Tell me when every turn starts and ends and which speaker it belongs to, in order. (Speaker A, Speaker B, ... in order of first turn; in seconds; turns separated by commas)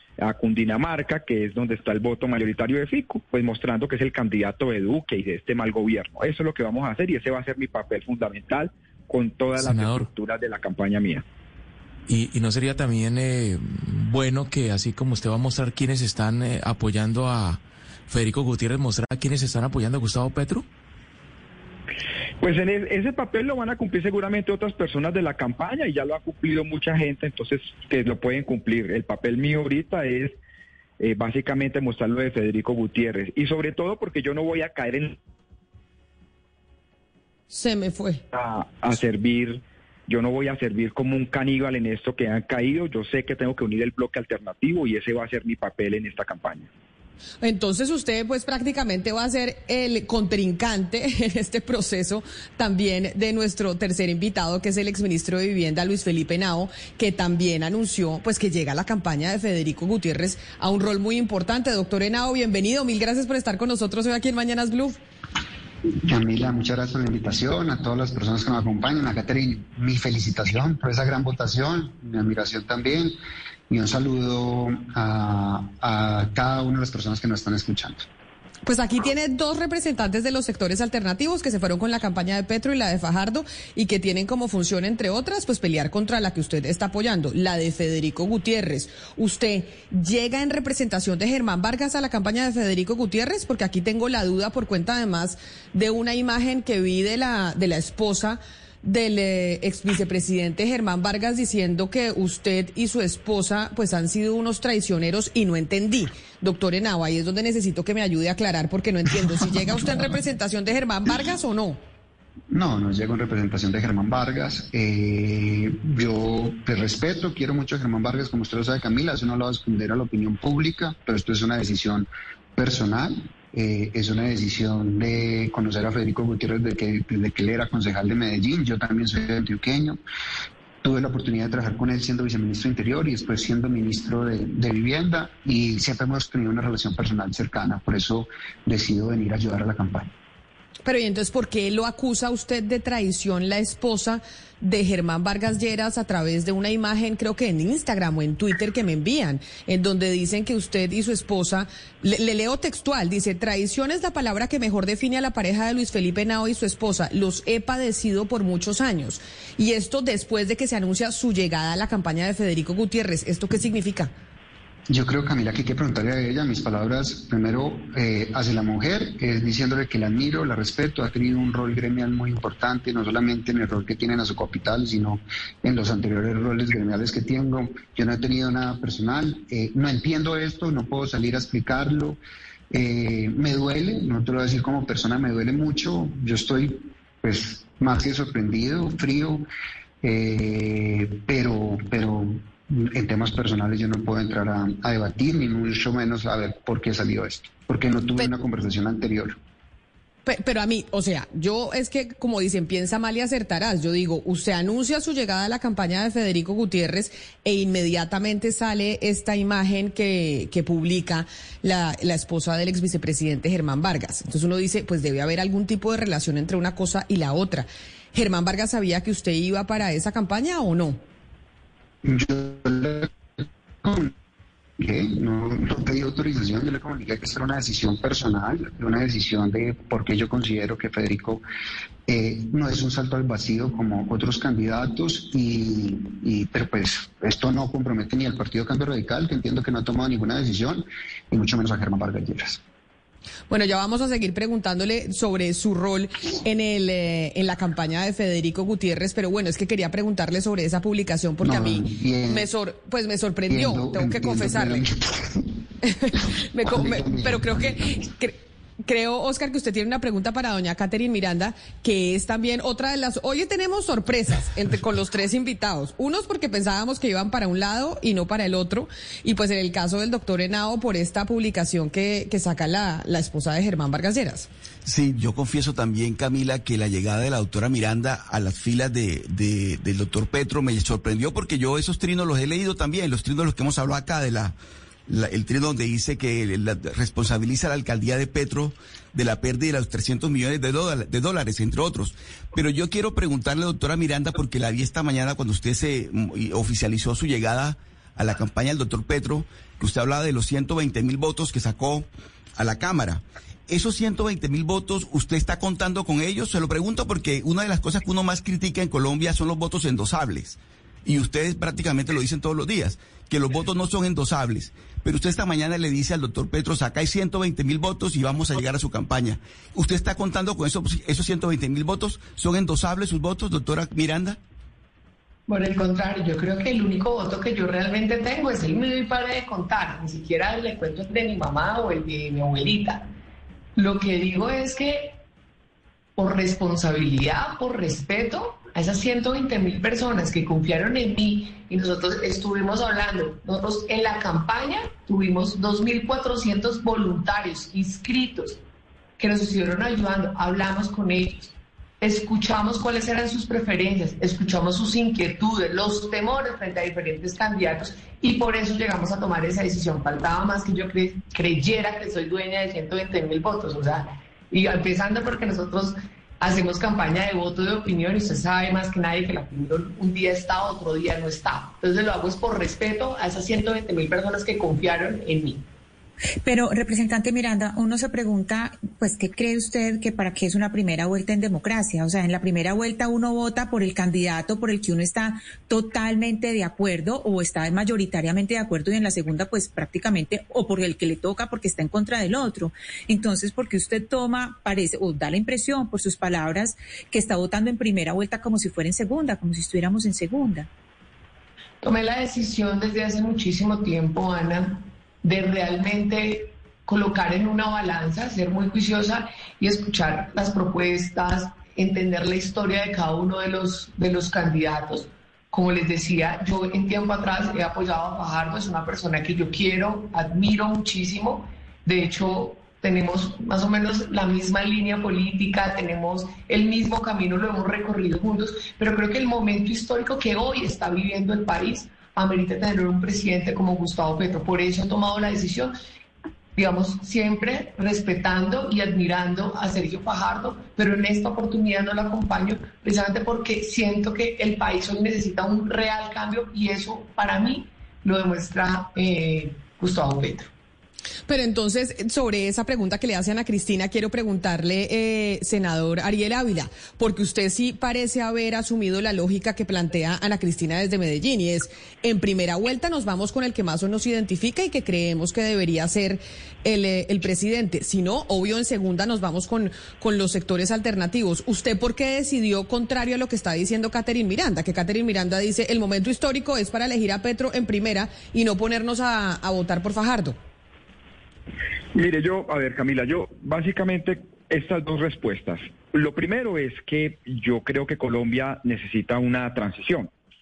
Speaker A: 0.2-11.2, Speaker B: 9.6-10.1, Speaker B: 12.1-20.7, Speaker A: 22.4-30.4, Speaker A: 31.0-35.2, Speaker C: 37.5-38.2, Speaker A: 38.3-46.7, Speaker C: 47.4-65.0, Speaker D: 66.0-73.2, Speaker D: 73.7-78.1, Speaker C: 78.7-111.8, Speaker D: 112.5-130.0, Speaker D: 130.8-140.1, Speaker C: 140.8-164.1, Speaker D: 164.9-182.2, Speaker D: 182.7-189.5, Speaker D: 190.0-199.4, Speaker C: 200.3-221.0, Speaker D: 222.0-224.1, Speaker D: 224.8-231.4, Speaker D: 232.1-242.6, Speaker C: 243.5-254.9, Speaker D: 251.4-252.5, Speaker D: 253.5-255.5, Speaker C: 255.8-274.5, Speaker D: 256.6-257.8, Speaker E: 274.9-284.6, Speaker E: 285.1-324.4, Speaker F: 325.5-333.1, Speaker F: 333.8-335.2, Speaker F: 336.2-348.6, Speaker F: 349.2-375.6, Speaker G: 376.4-400.7, Speaker F: 401.8-435.7, Speaker F: 436.6-450.5, Speaker C: 451.3-480.4, Speaker A: 481.9-490.1